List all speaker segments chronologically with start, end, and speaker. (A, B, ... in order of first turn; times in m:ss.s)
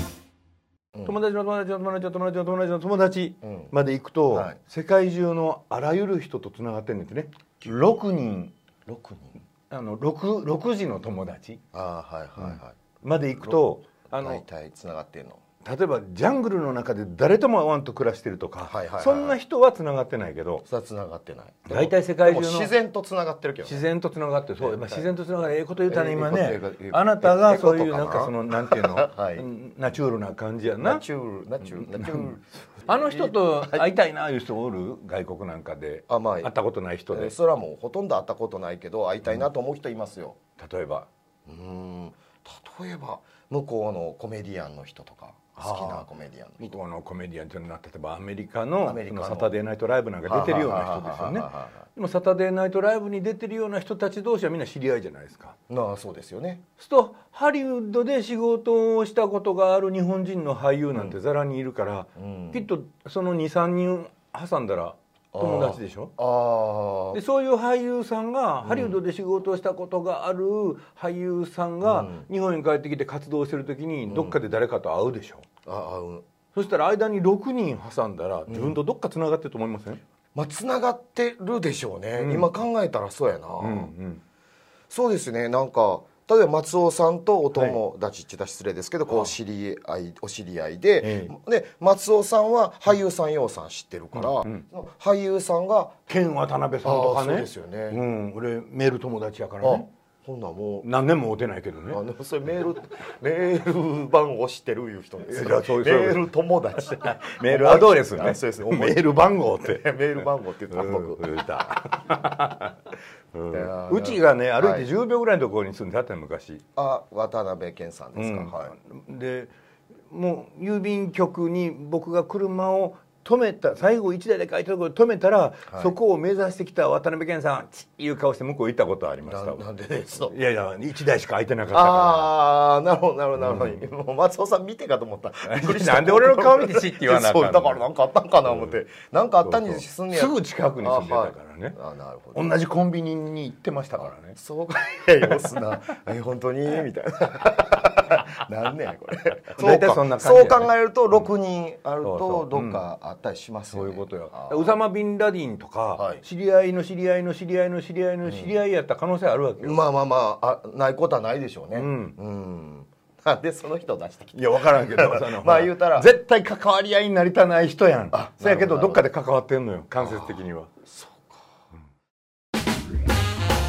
0:01.1-0:08.5 A
0:03.4-0:03.7 B
0:04.3-0:04.6 B
0:08.9-0:09.4 B
0:09.7-0:11.6 A
0:11.7-0:12.8 B
0:12.4-0:14.4 A
0:13.4-0:15.4 B
0:15.6-0:20.6 A
0:18.6-0:19.4 B
0:20.7-0:23.9 B
0:21.7-0:22.7 A
0:23.6-0:31.0 A
0:24.6-0:25.1 B
0:25.9-0:29.5 B
0:30.8-0:33.9 B
0:31.7-0:37.3 A
0:36.1-0:36.5 B
0:37.1-0:40.4 B
0:40.6-0:41.1 A
0:41.5-0:46.8 B
0:45.6-0:46.1 A
0:46.6-0:55.6 A
0:48.8-0:49.6 B
0:50.3-0:51.8 B
0:55.7-0:56.6 B
0:56.8-1:06.1 A
1:00.9-1:01.2 B
1:02.2-1:02.7 B
1:05.3-1:07.2 B
1:07.1-1:15.5 A
1:08.6-1:09.0 B
1:11.8-1:12.3 B
1:14.1-1:14.4 B
1:15.7-1:16.3 B
1:16.5-1:20.0 A
1:18.5-1:18.8 B
1:20.4-1:23.9 B
1:22.2-1:22.6 A
1:23.6-1:24.2 A
1:24.9-1:36.0 B
1:27.5-1:27.8 A
1:31.0-1:31.3 A
1:34.1-1:34.6 A
1:36.1-1:39.9 A
1:36.8-1:38.0 B
1:39.6-1:40.9 B
1:40.8-1:42.0 A
1:41.9-1:51.5 B
1:45.3-1:46.3 A
1:47.0-1:50.2 A
1:50.7-1:52.8 A
1:53.3-1:56.6 A
1:53.5-1:54.9 B
1:56.8-1:58.8 B
1:58.2-1:59.5 A
2:00.1-2:09.6 A
2:09.3-2:10.4 B
2:10.3-2:12.3 A
2:11.7-2:22.4 B
2:13.4-2:13.8 A
2:15.5-2:17.8 A
2:18.5-2:18.8 A
2:19.4-2:21.8 A
2:22.3-2:24.4 A
2:24.0-2:34.8 B
2:29.6-2:31.2 A
2:32.0-2:32.8 A
2:33.7-2:39.8 A
2:36.0-2:36.2 B
2:38.2-2:38.5 B
2:39.6-2:46.1 B
2:41.7-2:42.2 A
2:44.3-2:50.7 A
2:48.1-2:49.1 B
2:50.0-2:51.5 B